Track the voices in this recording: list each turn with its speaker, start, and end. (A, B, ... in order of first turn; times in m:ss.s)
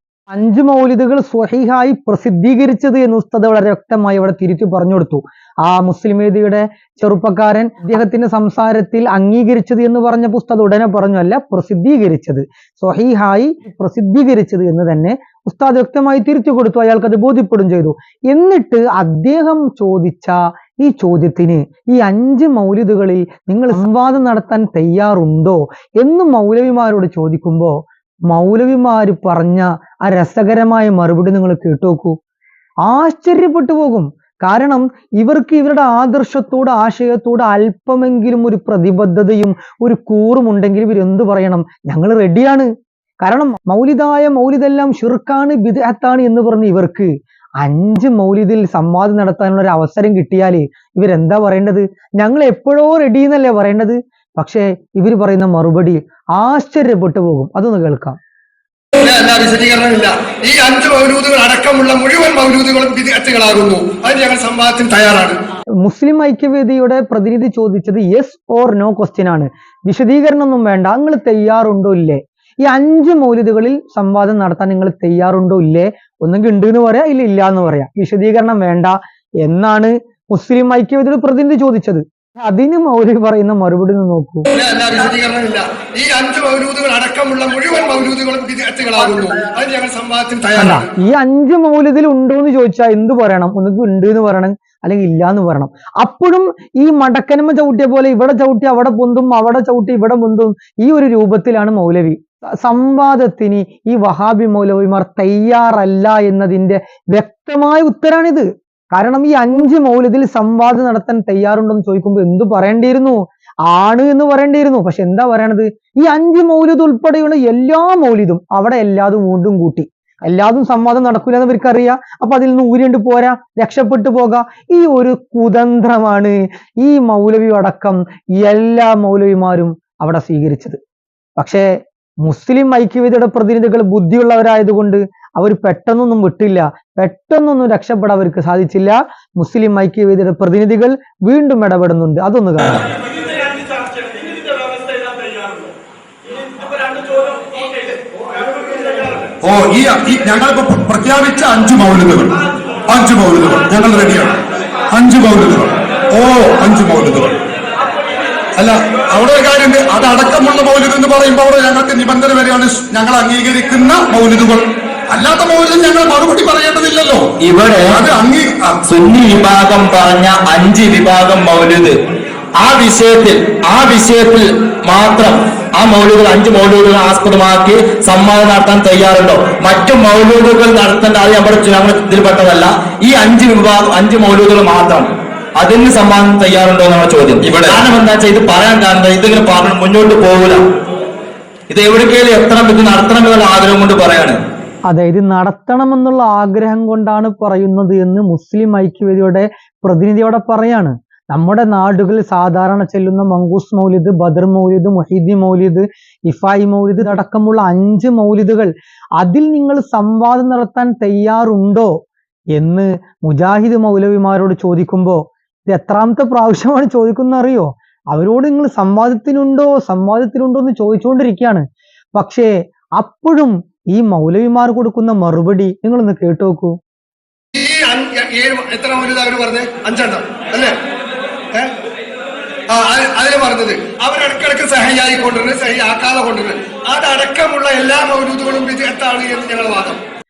0:00.3-0:32.2 A
0:32.8-0:42.7 A
0:43.2-0:47.1 A
0:47.6-0:58.2 A
0:59.0-1:05.4 B
1:05.8-1:24.5 A
1:24.5-1:30.9 B
1:30.6-2:10.8 A
2:11.4-2:11.7 A
2:12.2-2:22.8 A
2:29.4-2:37.3 C
2:38.6-2:47.3 C
2:47.4-2:48.0 D
2:47.8-2:48.8 C
2:48.8-2:52.0 D
2:52.6-3:10.6 D
3:11.7-3:14.4 D
3:14.9-3:31.9 A
3:32.6-3:46.8 A
3:47.5-3:50.7 B
3:52.7-4:00.0 B